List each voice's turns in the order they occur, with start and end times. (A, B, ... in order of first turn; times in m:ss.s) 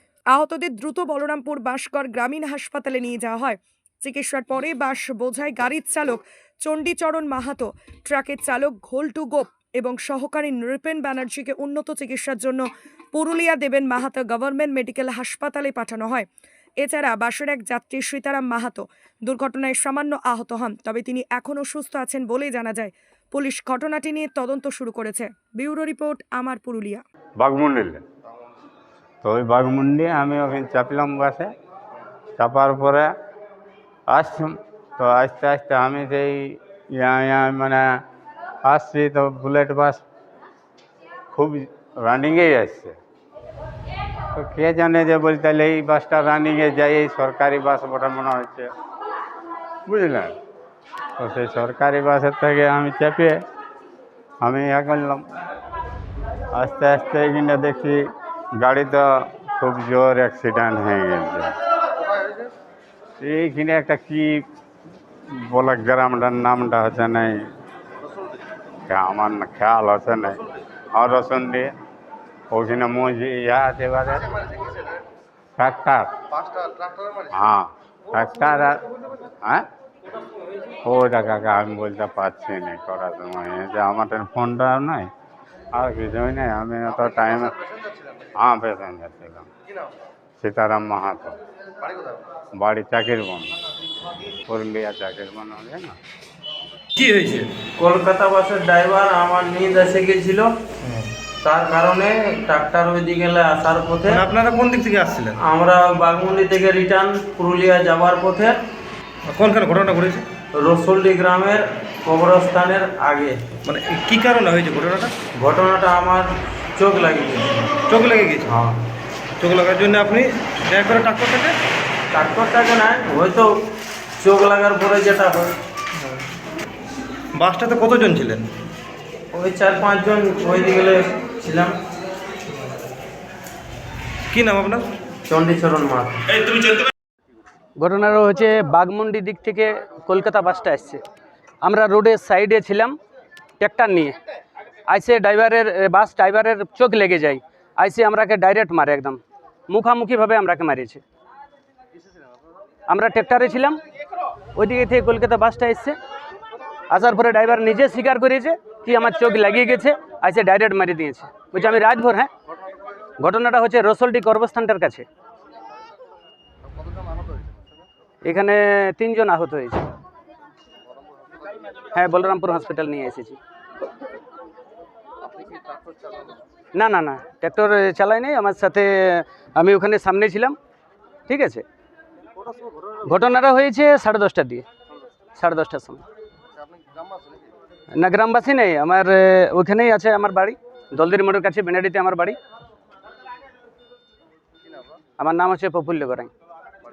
0:00.3-0:16.3 A
0:16.8-0:27.0 A
0:27.4-0:28.0 B
0:29.2-0:31.5 B
0:32.4-0:33.1 B
0:34.1-0:37.8 B
0:38.7-0:40.0 B
0:41.3-0:43.0 B
0:44.4-0:48.7 B
0:49.9-0:50.3 B
0:51.2-0:53.4 B
0:54.4-0:55.2 B
0:56.5-0:58.0 B
0:58.6-1:01.5 B
1:03.2-1:04.4 B
1:05.3-1:07.4 B
1:08.9-1:11.7 B
1:12.5-1:14.3 B
1:15.6-1:16.2 B
1:17.3-1:18.8 B
1:20.8-1:25.1 B
1:25.8-1:27.6 B
1:28.4-1:29.5 B
1:30.4-1:31.4 B
1:32.6-1:33.6 B
1:34.5-1:36.0 B
1:37.0-1:37.6 C
1:37.8-1:40.5 D
1:41.4-1:44.2 D
1:44.1-1:45.4 C
1:45.5-1:48.6 D
1:49.3-1:50.2 C
1:50.5-1:53.4 D
1:53.7-1:55.1 C
1:55.4-1:57.7 D
1:57.9-1:58.5 C
1:59.4-2:01.6 C
2:02.1-2:03.5 D
2:04.2-2:05.5 D
2:07.4-2:08.5 C
2:09.3-2:11.8 D
2:14.3-2:14.8 C
2:15.3-2:16.3 D
2:17.8-2:21.0 E
2:21.6-2:23.0 E
2:23.6-2:24.2 E
2:24.9-2:29.2 E
2:29.7-2:31.0 E
2:32.9-2:33.8 E
2:34.6-2:36.0 E
2:36.9-2:42.3 E
2:43.2-2:45.1 E
2:48.2-2:49.9 E
2:51.9-2:53.4 E
2:56.8-3:00.6 E
3:01.3-3:01.6 E
3:03.0-3:04.6 E
3:05.4-3:06.0 E
3:08.0-3:12.4 E
3:15.2-3:16.3 E